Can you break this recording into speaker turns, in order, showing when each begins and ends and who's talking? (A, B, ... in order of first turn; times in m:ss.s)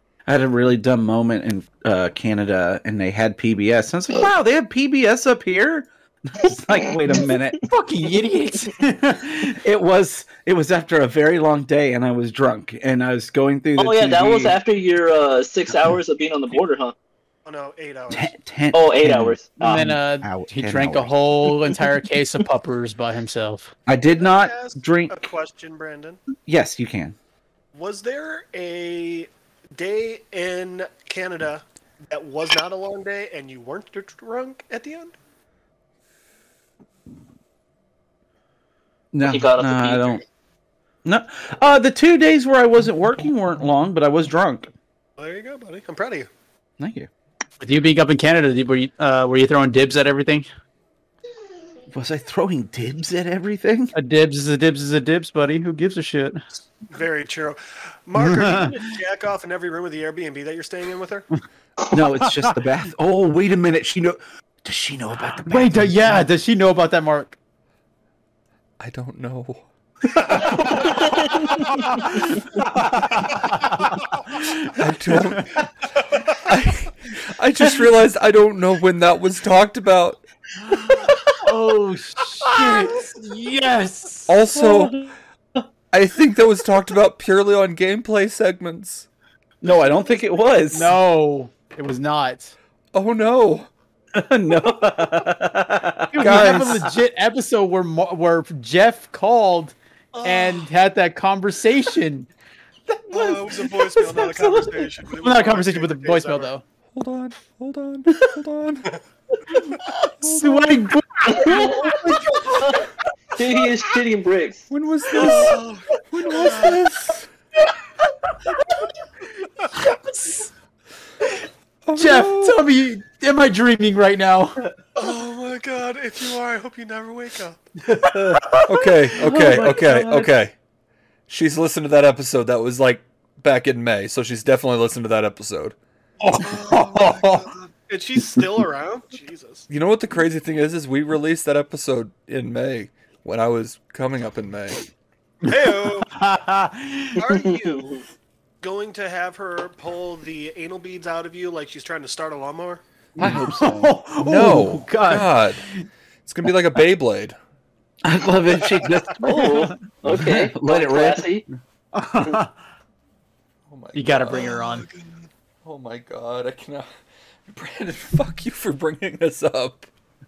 0:00.3-0:07.6 A
0:07.6-0:09.6 B
0:09.5-0:14.6 A
0:13.8-0:16.9 C
0:17.5-0:18.3 D
0:18.1-0:21.2 A
0:18.7-0:19.9 C
0:19.6-0:23.7 B
0:23.9-0:25.3 A
0:24.2-0:26.2 D
0:26.4-0:27.2 A
0:27.7-0:35.2 D
0:39.1-0:40.2 A
0:39.2-0:40.2 C
0:41.0-0:44.7 A
0:45.2-0:46.3 D
0:46.8-0:47.1 A
0:47.6-0:50.5 B
0:51.9-0:53.9 A
0:54.0-0:56.4 B
0:56.9-1:01.3 D
0:58.2-0:58.8 B
1:01.9-1:06.2 A
1:02.2-1:02.5 B
1:05.5-1:07.4 B
1:08.8-1:09.6 E
1:10.1-1:11.2 D
1:11.0-1:11.6 C
1:11.9-1:14.5 B
1:14.6-1:15.6 E
1:15.2-1:15.5 B
1:16.4-1:20.2 E
1:20.8-1:24.4 B
1:24.3-1:25.0 E
1:24.5-1:25.0 A
1:25.9-1:29.1 E
1:29.6-1:31.0 A
1:29.6-1:30.5 D
1:30.7-1:32.6 B
1:32.9-1:33.7 E
1:34.1-1:36.8 A
1:36.1-1:42.3 B
1:36.2-1:36.9 E
1:40.1-1:40.7 D
1:43.1-1:45.0 A
1:43.1-1:46.5 D
1:45.2-1:46.6 B
1:46.9-1:48.9 E
1:50.2-1:50.8 E
1:50.2-1:52.7 B
1:51.4-1:51.8 C
1:53.4-1:54.7 C
1:54.7-1:55.6 E
1:55.2-1:56.8 D
1:56.1-1:57.3 E
1:59.7-2:00.5 B
2:01.9-2:02.6 E
2:02.0-2:04.6 B
2:05.0-2:07.7 D
2:08.0-2:08.6 A
2:08.6-2:10.6 E
2:09.1-2:10.3 A
2:11.3-2:15.8 E
2:16.2-2:17.5 B
2:16.4-2:19.7 D
2:19.7-2:24.8 E
2:25.4-2:27.2 B
2:25.5-2:26.1 D
2:27.2-2:28.0 D
2:27.3-2:27.9 C
2:28.6-2:32.8 D
2:33.2-2:35.4 B
2:33.2-2:34.0 A
2:34.2-2:35.6 E
2:36.2-2:37.4 E
2:38.0-2:41.5 A
2:39.2-2:41.4 C
2:41.9-2:42.5 B
2:43.7-2:44.6 E
2:44.0-2:44.9 B
2:44.3-2:45.3 D
2:45.6-2:46.9 E
2:47.5-2:49.9 E